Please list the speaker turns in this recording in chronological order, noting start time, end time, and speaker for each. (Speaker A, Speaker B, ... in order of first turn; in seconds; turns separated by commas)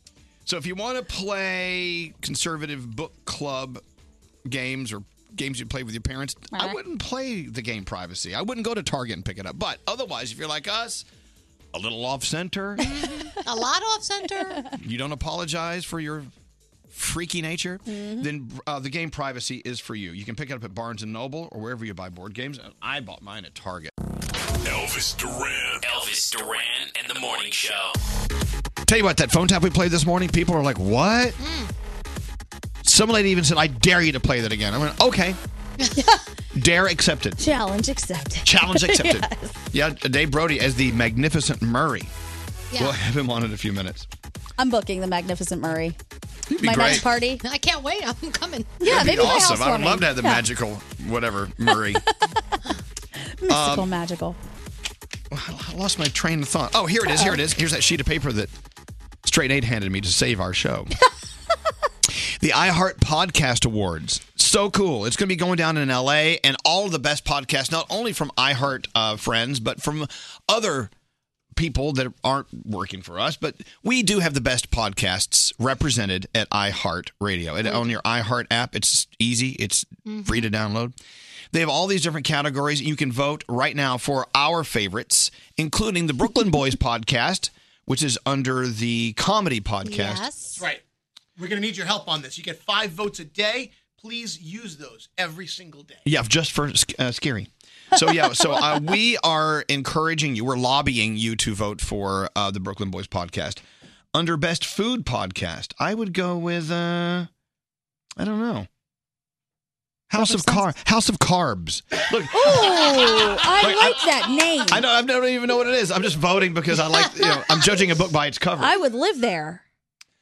Speaker A: 0.5-3.8, Speaker A: 4.5-11.1, Speaker B: 6.5-6.8, Speaker A: 11.7-12.9, Speaker C: 12.9-14.6, Speaker A: 14.8-16.3, Speaker A: 16.9-23.9, Speaker B: 17.9-18.3, Speaker D: 25.8-27.9, Speaker A: 28.9-31.4, Speaker C: 31.4-31.7, Speaker A: 32.8-35.4, Speaker A: 36.5-37.4, Speaker B: 37.4-39.5, Speaker A: 38.5-42.1, Speaker A: 42.8-44.1, Speaker B: 44.6-46.0, Speaker A: 46.5-47.1, Speaker B: 46.6-47.4, Speaker C: 47.4-49.3, Speaker B: 48.8-50.4, Speaker A: 48.8-52.0, Speaker B: 53.4-54.4, Speaker A: 53.5-53.9, Speaker A: 55.3-58.5, Speaker B: 57.0-57.4, Speaker A: 59.2-60.9, Speaker A: 62.4-70.9, Speaker A: 71.5-81.0, Speaker C: 80.1-80.4, Speaker A: 81.5-90.2, Speaker C: 89.8-90.7, Speaker E: 90.5-90.8, Speaker E: 91.4-96.0, Speaker A: 96.0-103.6, Speaker A: 104.1-107.3, Speaker A: 108.2-108.7, Speaker A: 110.1-114.1, Speaker B: 110.2-110.7, Speaker B: 112.3-114.8, Speaker A: 114.7-118.7, Speaker B: 118.6-119.6